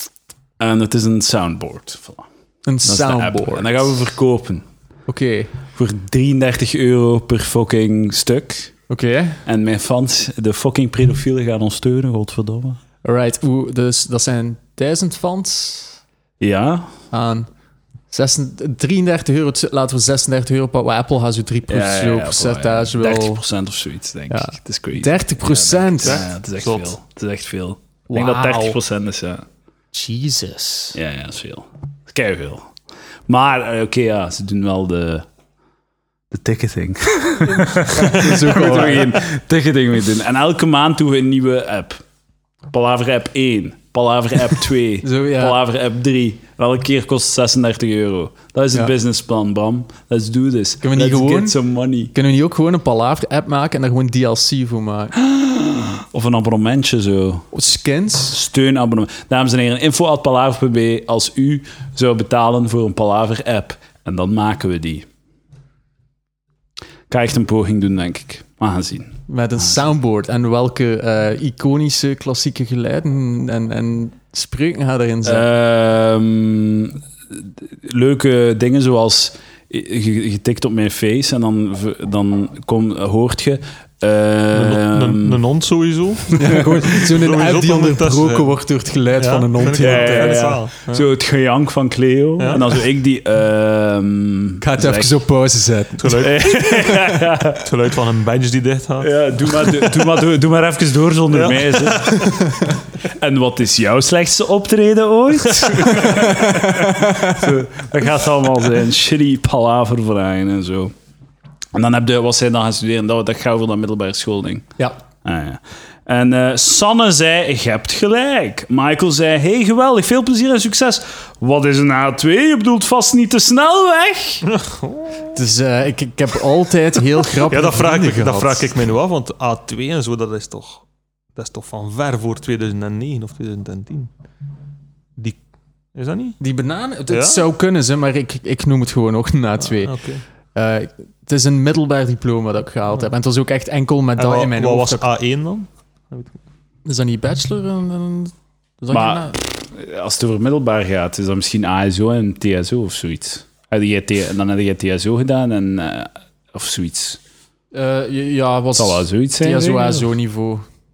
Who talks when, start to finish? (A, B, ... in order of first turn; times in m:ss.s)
0:00.6-0:02.3 A
0:02.7-0:03.9 B
0:02.8-0:04.7 A
0:05.1-0:05.5 B
0:05.7-0:08.7 A
0:08.9-0:09.4 B
0:09.4-0:12.8 A
0:13.0-0:16.0 B
0:16.4-0:16.9 A
0:17.1-0:17.5 B
0:18.1-0:23.4 B
0:21.7-0:29.4 A
0:24.3-0:26.3 B
0:26.0-0:26.9 C
0:28.1-0:28.8 B
0:29.9-0:31.0 B
0:30.9-0:32.7 A
0:33.3-0:35.3 A
0:36.3-0:42.0 A
0:37.5-0:39.2 B
0:42.7-0:52.1 A
0:45.0-0:45.6 B
0:50.8-0:51.6 B
0:52.1-0:55.1 B
0:55.2-0:57.5 A
0:57.5-0:58.4 B
0:58.3-1:05.1 A
1:07.1-1:09.2 A
1:09.3-1:15.4 B
1:15.2-1:25.4 A
1:24.5-1:28.6 C
1:26.4-1:30.5 B
1:29.2-1:31.0 C
1:29.8-1:35.1 A
1:32.4-1:32.6 C
1:34.6-1:36.4 B
1:36.0-1:37.0 C
1:36.1-1:37.6 A
1:36.9-1:37.2 B
1:37.6-1:39.9 C
1:39.0-1:42.4 A
1:41.3-1:42.5 C
1:43.1-1:50.9 A
1:46.0-1:47.4 B
1:51.7-1:54.7 A
1:55.2-2:04.4 A
2:04.5-2:05.4 C
2:05.3-2:08.7 B
2:07.5-2:10.8 C
2:11.4-2:14.1 C
2:16.0-2:16.4 C
2:16.4-2:20.0 B
2:17.1-2:17.4 C
2:19.7-2:20.2 C
2:20.6-2:25.0 B
2:24.2-2:26.4 C
2:26.8-2:29.4 B
2:28.9-2:37.2 A
2:37.7-2:40.6 B
2:38.8-2:40.0 A